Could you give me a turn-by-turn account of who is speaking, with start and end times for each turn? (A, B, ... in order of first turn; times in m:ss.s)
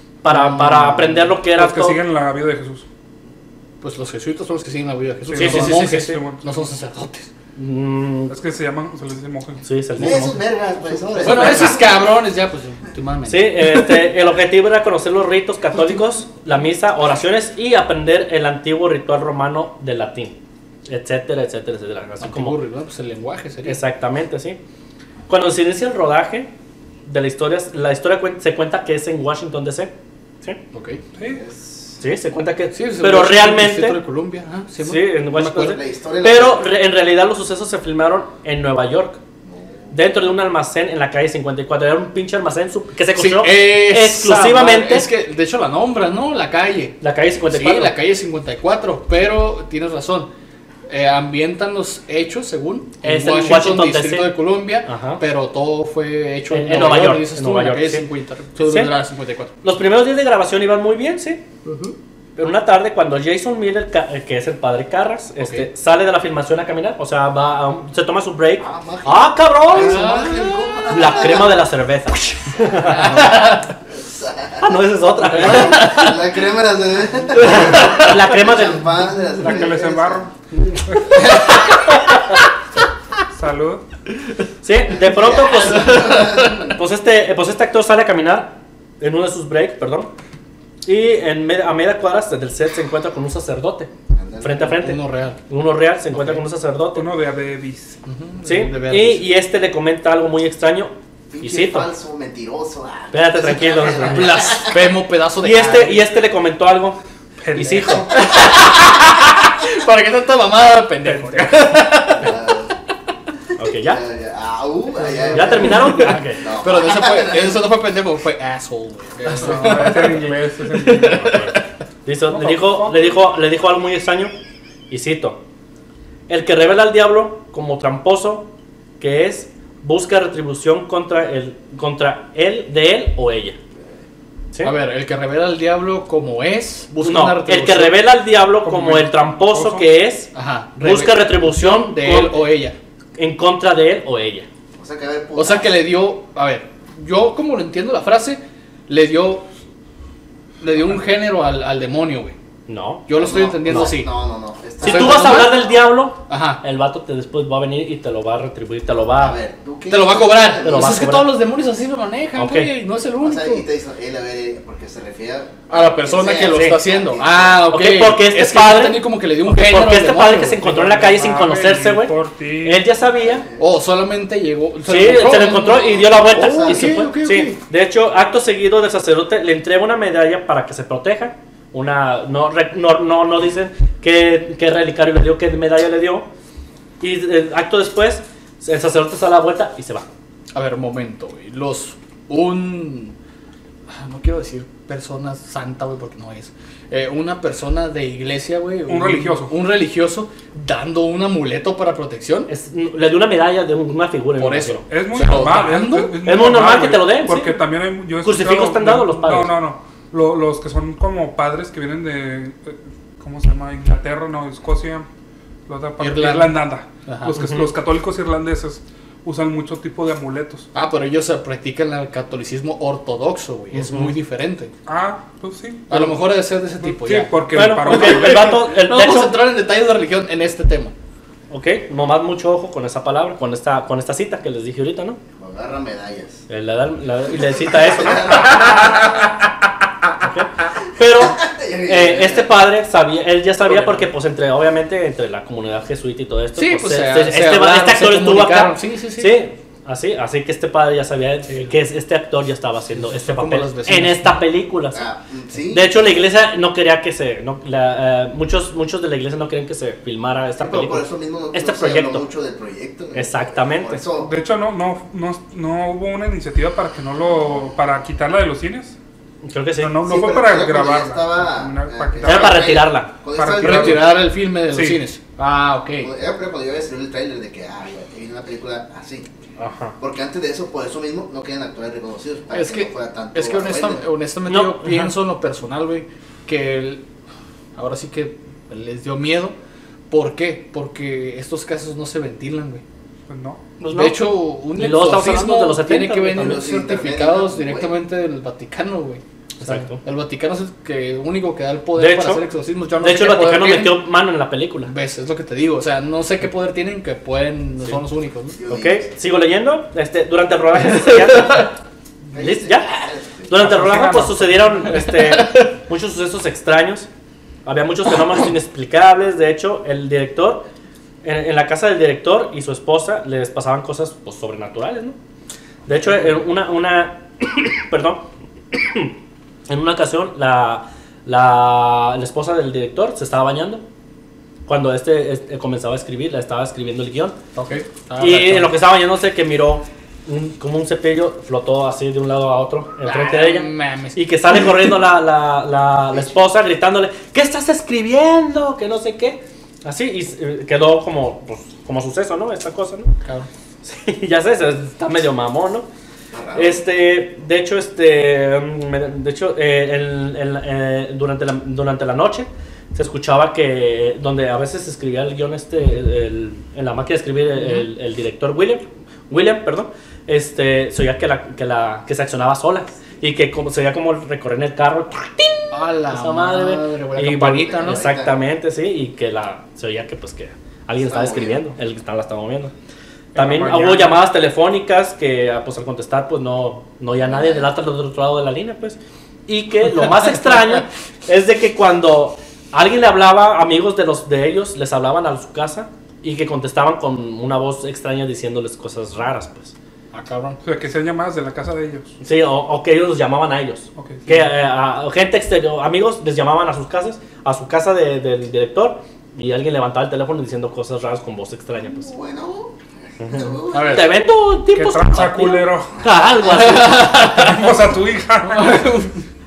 0:00.2-0:02.0 A
0:00.2-0:01.3 B
0:01.5-0:02.9 C
0:03.8-0:07.3 B
0:05.3-0:06.7 C
0:05.4-0:06.0 A
0:07.6-0:08.4 A
0:08.3-0:09.6 C
0:09.6-0:10.4 A
0:10.0-0:12.0 D
0:11.2-0:14.0 B
0:11.2-0:11.7 A
0:13.3-0:20.4 A
0:20.9-0:22.6 A
0:22.2-0:23.8 B
0:23.6-0:24.6 A
0:25.3-0:26.5 A
0:27.0-0:29.9 A
0:30.7-0:31.0 B
0:31.1-0:31.9 D
0:32.0-0:34.0 A
0:32.7-0:35.8 B
0:34.8-0:39.2 A
0:35.6-0:36.7 D
0:39.5-0:39.9 D
0:39.9-0:45.1 A
0:43.1-0:50.3 B
0:47.0-0:47.9 A
0:50.9-0:59.5 B
0:53.0-0:55.2 A
0:56.5-0:58.0 A
0:58.6-0:58.9 A
0:59.6-1:01.4 A
1:01.7-1:01.9 B
1:02.4-1:10.2 A
1:05.4-1:05.7 B
1:08.6-1:11.6 D
1:09.7-1:10.9 B
1:10.9-1:13.7 A
1:12.6-1:13.7 B
1:14.0-1:14.7 D
1:14.6-1:16.1 A
1:15.3-1:20.3 D
1:15.3-1:16.2 B
1:17.4-1:19.0 A
1:17.4-1:18.2 B
1:19.4-1:20.3 C
1:20.9-1:21.2 C
1:23.3-1:23.8 C
1:24.6-1:30.1 A
1:25.0-1:26.7 D
1:25.7-1:26.7 B
1:30.8-1:37.1 A
1:34.1-1:34.8 D
1:34.6-1:35.4 B
1:36.1-1:36.4 B
1:36.9-1:38.0 C
1:38.0-1:39.3 B
1:38.4-1:41.9 A
1:41.3-1:44.8 D
1:43.1-1:44.7 A
1:43.9-1:46.0 B
1:45.4-1:47.0 A
1:47.4-1:48.1 C
1:47.5-1:48.1 A
1:47.9-1:48.4 D
1:48.1-1:52.5 B
1:51.0-1:51.9 C
1:52.2-1:52.7 D
1:53.6-1:54.0 A
1:53.8-1:57.7 D
1:55.0-2:01.6 B
1:55.3-1:56.4 A
1:59.3-2:00.4 A
1:59.3-2:01.6 C
2:02.0-2:04.3 A
2:02.3-2:03.2 C
2:04.9-2:05.4 A
2:06.3-2:13.6 A
2:14.6-2:18.0 B
2:17.0-2:22.4 A
2:18.6-2:19.9 C
2:20.3-2:22.8 B
2:23.2-2:24.4 A
2:24.8-2:25.7 D
2:25.4-2:29.4 B
2:30.6-2:32.4 B
2:32.7-2:33.1 A
2:33.1-2:34.1 B
2:33.2-2:35.5 D
2:33.7-2:34.0 A
2:34.8-2:35.6 B
2:34.8-2:39.4 A
2:36.3-2:36.6 B
2:39.2-2:41.0 D
2:39.9-2:43.7 B
2:40.6-2:41.3 A
2:42.4-2:42.7 A
2:43.2-2:47.7 D
2:45.7-2:51.1 B
2:46.4-2:46.8 A
2:47.7-2:53.4 A
2:50.9-2:52.8 C
2:53.1-2:53.6 D
2:53.6-2:57.6 B
2:54.8-3:06.3 A
2:55.8-2:57.0 D
3:07.0-3:10.0 A
3:10.5-3:13.2 B
3:13.9-3:22.5 B
3:18.9-3:19.5 C
3:22.5-3:24.8 A
3:24.4-3:26.1 B
3:24.9-3:35.1 C
3:26.2-3:27.6 A
3:28.2-3:29.6 A
3:35.7-3:40.7 C
3:36.0-3:37.4 B
3:37.4-3:37.7 A
3:40.7-3:44.7 B
3:43.7-3:44.1 A
3:44.9-3:46.3 C
3:45.9-3:50.9 B
3:46.8-3:48.7 C
3:47.5-3:49.4 A
3:51.5-3:55.2 A
3:55.4-3:56.4 D
3:56.5-3:59.2 A
3:57.4-3:59.0 D
3:58.6-3:59.2 B
4:00.2-4:15.1 A
4:01.2-4:02.5 D
4:03.6-4:04.1 B
4:06.6-4:09.4 B
4:11.5-4:11.7 B
4:12.9-4:14.4 B
4:14.9-4:16.1 D
4:15.7-4:22.2 A
4:20.6-4:24.3 D
4:23.1-4:24.0 A
4:24.2-4:29.0 C
4:29.4-4:29.9 A
4:29.8-4:32.8 C
4:30.0-4:34.1 D
4:32.2-4:33.1 A
4:33.4-4:34.2 C
4:33.5-4:36.1 B
4:34.7-4:35.0 C
4:36.0-4:39.3 D
4:39.6-4:40.0 A
4:40.0-4:44.0 D
4:42.5-4:47.0 B
4:44.5-4:45.1 A
4:47.8-4:49.6 B
4:50.1-4:52.8 B
4:53.3-4:53.6 C
4:53.8-4:56.6 A
4:53.9-5:04.0 B
4:56.4-4:58.0 D
4:59.6-5:00.0 A
5:02.0-5:02.4 A
5:03.0-5:04.9 A
5:04.8-5:08.6 B
5:08.6-5:09.1 D
5:08.7-5:11.7 A
5:11.0-5:11.7 B
5:12.3-5:13.7 D
5:12.3-5:12.9 A
5:13.5-5:17.1 A
5:13.6-5:14.5 C
5:13.9-5:14.3 B
5:14.8-5:15.7 B
5:17.6-5:20.6 A
5:21.2-5:25.2 A
5:25.9-5:29.1 A
5:29.7-5:33.8 A
5:34.6-5:37.4 A
5:37.5-5:38.7 B
5:38.2-5:53.1 A
5:43.0-5:44.9 B
5:53.8-5:55.9 A
5:56.3-5:56.8 D
5:56.5-6:22.7 A
6:07.6-6:07.8 B
6:15.7-6:18.0 B
6:17.6-6:18.3 D
6:21.0-6:21.6 D
6:23.4-6:24.2 C
6:23.4-6:39.7 A
6:27.2-6:27.7 D
6:40.1-6:40.6 B
6:40.6-6:42.1 C
6:42.2-6:52.1 A
6:44.0-6:44.4 C
6:51.8-6:54.1 D
6:53.2-6:57.6 A
6:53.7-6:54.1 B
6:54.7-6:56.0 C
6:56.5-6:57.5 B
6:57.2-6:58.9 C
6:58.5-6:59.2 B